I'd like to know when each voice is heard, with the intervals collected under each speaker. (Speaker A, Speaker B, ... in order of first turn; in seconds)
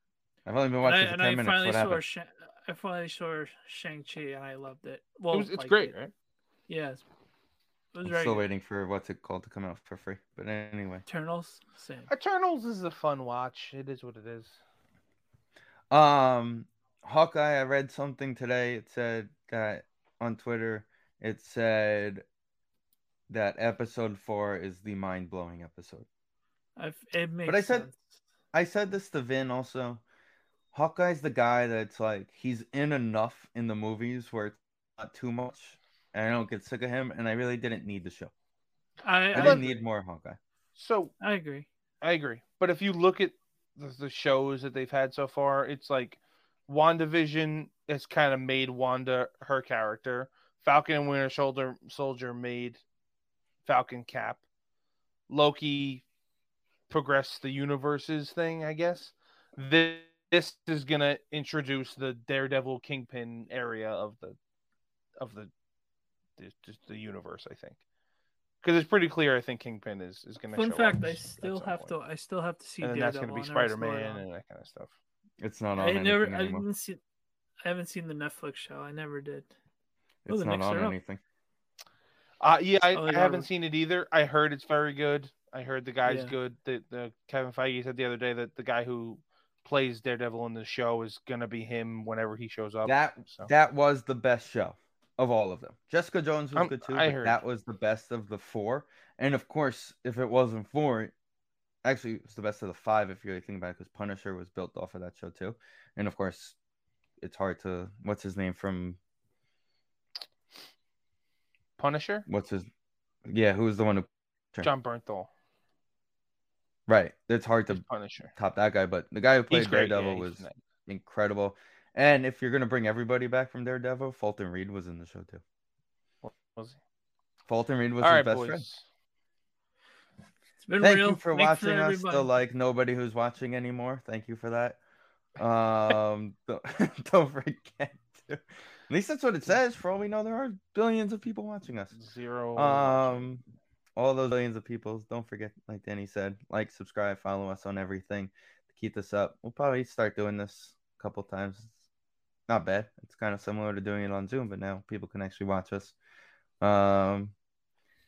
Speaker A: 0.5-2.0, 8.1-11.0, 15.9-22.2, 23.3-26.1, 27.5-27.9, 28.5-30.0, 30.7-38.3, 39.3-40.4, 75.4-76.7, 80.2-81.2, 92.8-101.1, 101.8-106.6, 107.2-109.0, 112.3-112.7, 113.3-114.7, 116.9-117.8, 118.3-125.4, 127.5-128.7, 130.8-134.8, 135.4-141.9, 142.6-143.4, 144.0-151.8, 152.5-156.0, 156.6-157.3
Speaker B: 0.8-5.9, 6.7-7.0, 7.9-8.4, 11.1-12.1, 26.8-28.0, 39.0-39.6, 41.2-41.7, 70.5-74.2, 75.8-77.0, 77.6-79.5, 80.3-81.0, 82.9-83.5, 86.0-86.3, 130.6-132.3
Speaker C: 5.3-6.1, 12.1-14.6, 39.3-39.8, 40.8-41.1, 42.0-52.8, 53.7-54.4, 55.3-56.0, 56.9-64.4, 65.2-65.5, 66.4-67.8, 68.6-71.9, 72.8-74.9, 82.4-93.5, 96.5-97.4, 111.8-112.3, 114.6-115.3, 117.7-118.3, 119.5-120.6, 126.2-126.8, 128.0-128.8, 141.9-143.4